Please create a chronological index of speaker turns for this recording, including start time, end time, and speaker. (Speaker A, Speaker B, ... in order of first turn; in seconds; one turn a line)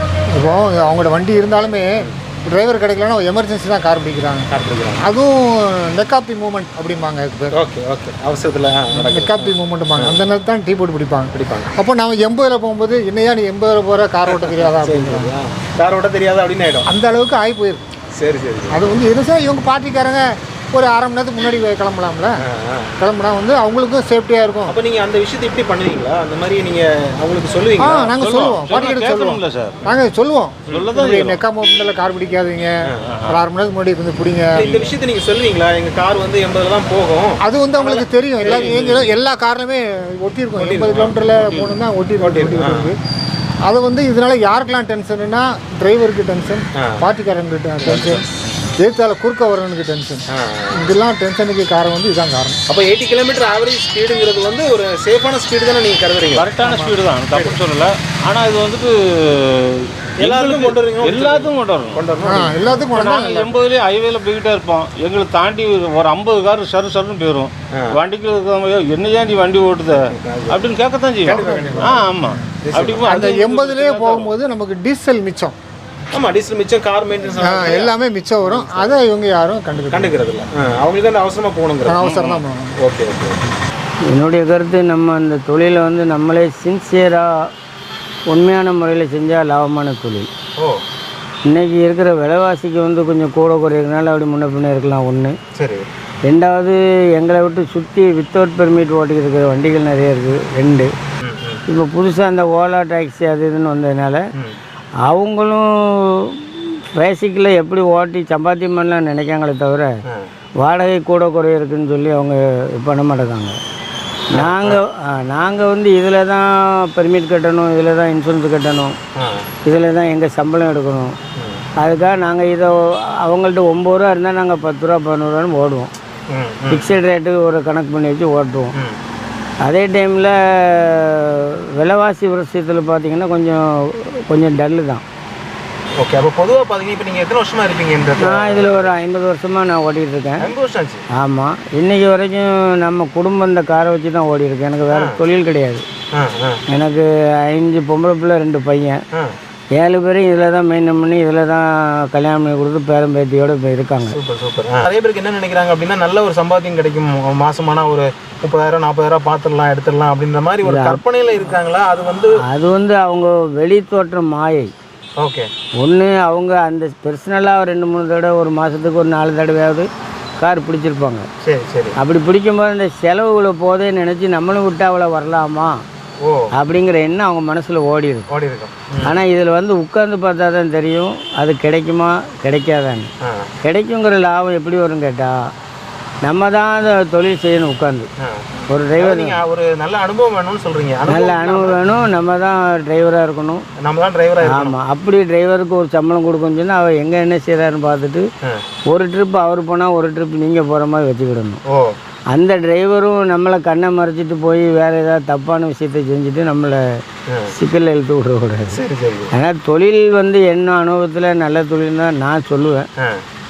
Speaker A: 0.3-4.5
Speaker B: 4.5-5.0
Speaker A: 5.0-7.6
Speaker B: 7.5-10.2
Speaker A: 8.9-15.3
Speaker B: 11.3-11.7
Speaker B: 14.2-16.9
Speaker A: 16.9-17.8
Speaker B: 18.1-18.9
Speaker A: 18.7-22.3
Speaker B: 22.4-22.9
Speaker A: 23.0-24.8
Speaker B: 24.7-28.1
Speaker A: 27.8-32.7
Speaker C: 28.2-29.8
Speaker C: 30.7-31.4
Speaker A: 33.3-34.9
Speaker B: 34.5-39.0
Speaker A: 37.4-43.0
Speaker C: 38.4-39.0
Speaker B: 40.6-41.2
Speaker C: 41.3-41.8
Speaker B: 42.2-42.9
Speaker A: 43.7-48.2
Speaker B: 46.8-47.0
Speaker C: 47.8-48.5
Speaker A: 48.8-50.2
Speaker B: 50.3-51.0
Speaker A: 50.8-52.6
Speaker B: 52.7-56.4
Speaker C: 56.3-58.9
Speaker A: 56.6-56.9
Speaker C: 59.4-62.0
Speaker B: 60.2-62.9
Speaker A: 62.2-63.6
Speaker C: 62.9-74.3
Speaker B: 70.0-70.6
Speaker B: 71.2-72.0
Speaker A: 71.3-72.4
Speaker B: 72.6-73.2
Speaker A: 73.0-75.5
Speaker B: 76.1-79.0
Speaker A: 77.5-80.2
Speaker B: 79.8-83.4
Speaker A: 81.8-82.7
Speaker D: 84.1-87.5
Speaker D: 88.3-90.3
Speaker D: 91.5-95.4
Speaker B: 95.5-95.9
Speaker D: 96.2-100.9
Speaker B: 101.2-101.6
Speaker D: 101.7-104.2
Speaker D: 105.1-109.9
Speaker D: 110.6-113.5
Speaker B: 114.3-114.8
Speaker D: 114.3-118.9
Speaker B: 119.2-119.5
Speaker D: 119.6-121.1
Speaker D: 121.8-125.9
Speaker B: 126.3-126.9
Speaker D: 126.7-128.7
Speaker D: 129.6-135.0
Speaker B: 136.0-138.9
Speaker D: 138.2-140.5
Speaker B: 140.4-141.0
Speaker D: 141.2-145.8
Speaker B: 144.9-145.2
Speaker B: 146.1-146.6
Speaker D: 146.7-149.0
Speaker D: 149.8-154.2
Speaker B: 154.0-162.3
Speaker D: 160.6-161.0
Speaker D: 162.5-164.7
Speaker B: 165.2-165.5
Speaker D: 165.8-169.9
Speaker D: 170.4-171.3
Speaker B: 171.4-171.9
Speaker D: 172.0-175.7
Speaker B: 176.2-176.5
Speaker D: 176.6-178.3
Speaker B: 178.3-179.2
Speaker D: 179.0-183.1
Speaker B: 183.2-183.5
Speaker D: 183.6-185.5
Speaker D: 186.2-188.1
Speaker B: 188.2-191.8
Speaker D: 188.7-189.4
Speaker D: 191.1-193.6
Speaker B: 193.8-194.8
Speaker D: 194.4-198.2
Speaker D: 198.9-201.6
Speaker B: 201.7-202.0
Speaker D: 202.3-206.8
Speaker D: 207.6-208.8
Speaker B: 208.7-209.3
Speaker D: 209.3-212.9